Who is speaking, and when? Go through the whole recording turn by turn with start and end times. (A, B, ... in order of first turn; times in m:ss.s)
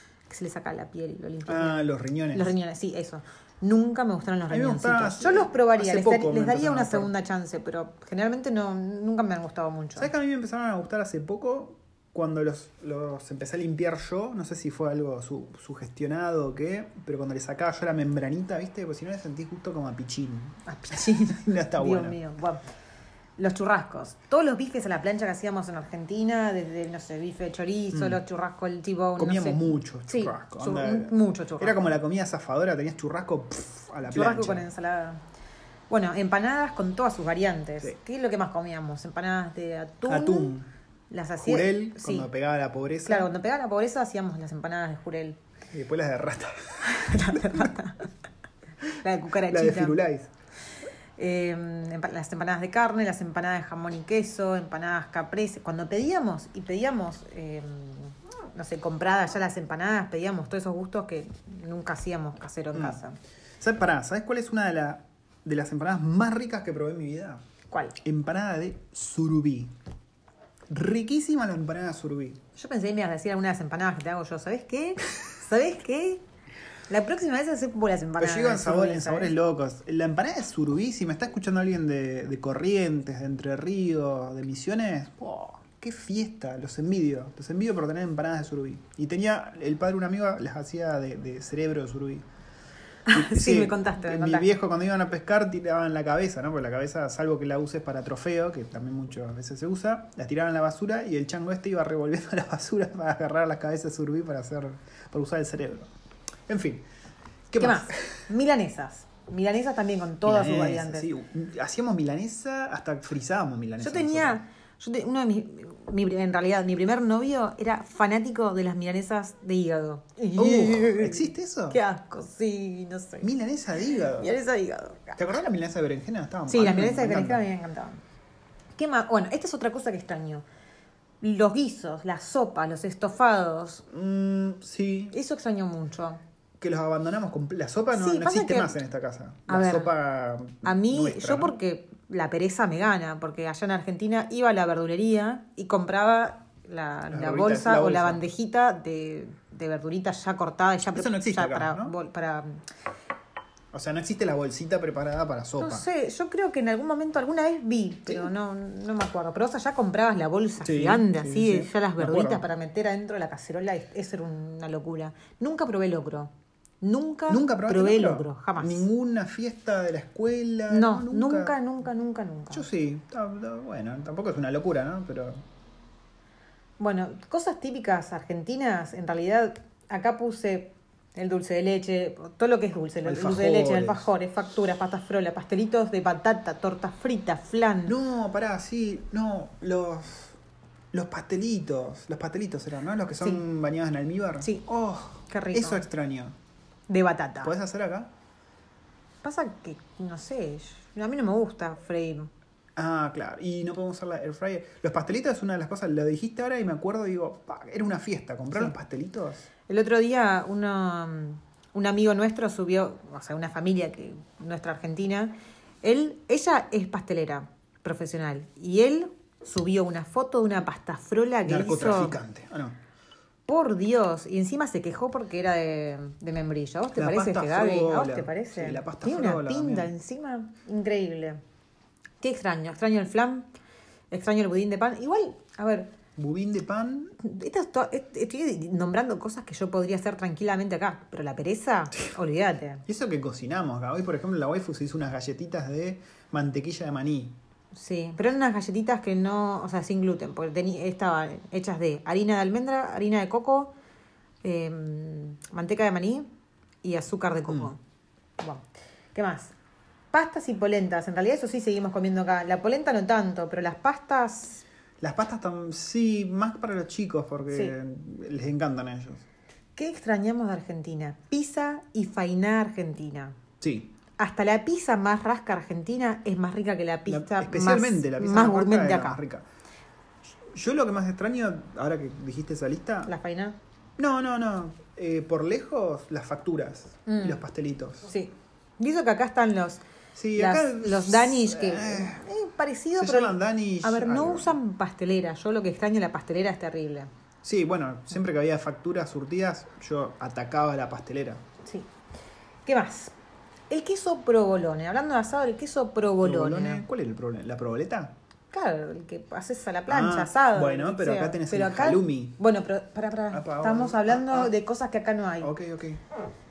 0:00.3-0:10.1 A
0:01.5-0:02.5 B
0:04.5-0:07.1 B
0:10.0-0:22.2 B
0:20.7-0:22.6 A
0:23.4-0:31.9 A
0:27.9-0:28.2 B
0:29.2-0:34.7 B
0:34.1-0:35.2 A
0:35.9-0:40.5 A
0:40.1-0:40.7 B
0:41.1-0:42.3 A
0:41.4-0:43.3 B
0:43.1-0:45.4 A
0:45.7-0:47.7 B
0:46.8-0:48.1 A
0:49.0-0:50.0 A
0:49.4-0:50.3 B
0:51.2-1:03.2 A
1:02.7-1:03.0 B
1:03.6-1:07.4 B
1:07.7-1:08.0 A
1:08.0-1:09.7 B
1:10.7-1:12.4 B
1:12.6-1:16.2 A
1:16.9-1:19.4 A
1:18.2-1:32.2 B
1:33.1-1:34.6 A
1:33.1-1:45.9 B
1:46.5-1:46.8 B
1:47.5-1:48.3 B
1:47.6-1:51.1 A
1:50.2-1:54.4 B
1:53.8-2:03.3 A
2:00.4-2:01.8 B
2:03.2-2:04.4 B
2:04.2-2:05.2 A
2:05.2-2:07.4 B
2:06.5-2:08.0 A
2:08.8-2:10.4 A
2:11.2-2:13.8 A
2:13.9-2:15.2 B
2:15.1-2:16.2 A
2:16.6-2:21.6 B
2:17.9-2:18.8 A
2:19.5-2:19.9 A
2:20.6-2:32.6 A
2:27.1-2:28.2 B
2:30.9-2:32.0 B
2:33.7-2:35.8 B
2:35.6-2:48.9 A
2:40.6-2:42.4 B
2:47.3-2:51.6 B
2:50.7-2:52.7 A
2:52.5-2:55.4 B
2:56.8-3:08.0 A
3:03.0-3:04.1 B
3:07.9-3:10.4 B
3:10.9-3:16.4 B
3:15.3-3:15.9 A
3:16.9-3:17.5 A
3:17.4-3:18.1 B
3:19.2-3:22.3 A
3:22.8-3:29.5 B
3:29.7-3:42.2 A
3:41.4-3:42.8 B
3:43.5-3:51.4 A
3:46.9-3:49.9 B
3:52.2-3:53.5 A
3:54.1-3:55.9 A
3:56.2-3:57.2 B
3:57.2-4:02.8 A
4:02.9-4:07.4 B
4:07.7-4:13.7 A
4:14.4-4:16.3 A
4:16.8-4:17.8 A
4:18.4-4:19.5 A
4:20.1-4:24.6 A
4:25.0-4:29.2 B
4:29.8-4:33.4 A
4:33.6-4:33.9 B
4:34.2-4:39.2 A
4:37.1-4:39.4 B
4:40.5-4:43.1 B
4:43.1-4:43.6 A
4:44.0-4:48.1 B
4:47.1-4:47.4 A
4:48.1-4:49.8 A
4:50.2-4:52.2 B
4:50.4-4:57.1 A
4:53.0-4:54.6 B
4:57.4-5:01.4 B
5:01.6-5:01.9 A
5:02.7-5:03.2 A
5:03.7-5:06.8 A
5:06.2-5:08.2 B
5:08.5-5:15.5 A
5:09.9-5:12.4 B
5:13.3-5:14.5 B
5:15.4-5:16.0 B